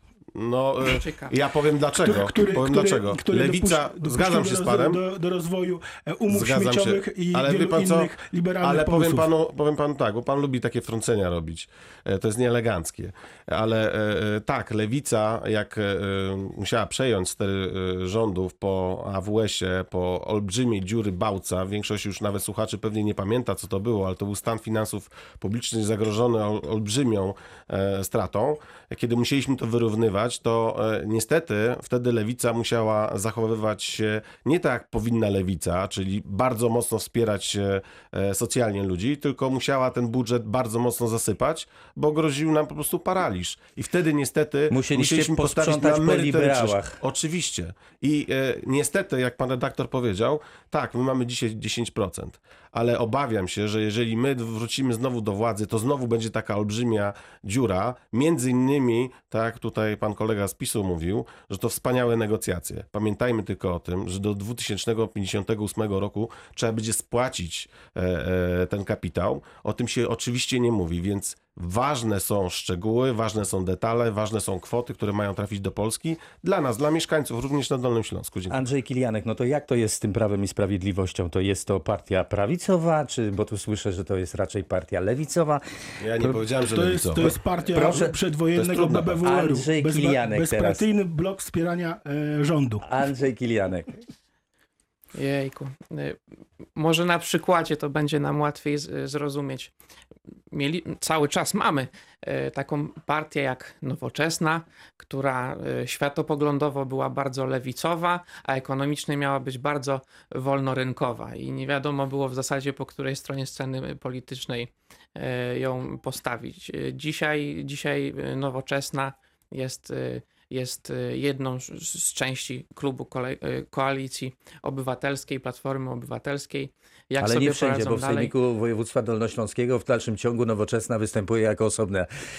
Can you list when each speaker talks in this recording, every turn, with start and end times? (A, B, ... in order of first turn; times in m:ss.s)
0:00.3-0:05.0 A
0:00.9-0:01.4 B
0:02.0-0:09.3 C
0:06.3-0:08.1 A
0:08.6-1:18.6 A
0:44.7-0:47.0 D
1:18.5-1:25.6 D
1:26.0-1:27.4 A
1:26.2-1:32.8 C
1:27.7-1:28.1 D
1:28.6-1:29.2 A
1:29.2-1:30.8 D
1:32.8-1:34.0 D
1:35.1-1:36.2 B
1:36.7-1:39.7 B
1:40.5-2:08.3 B
2:07.2-2:12.1 D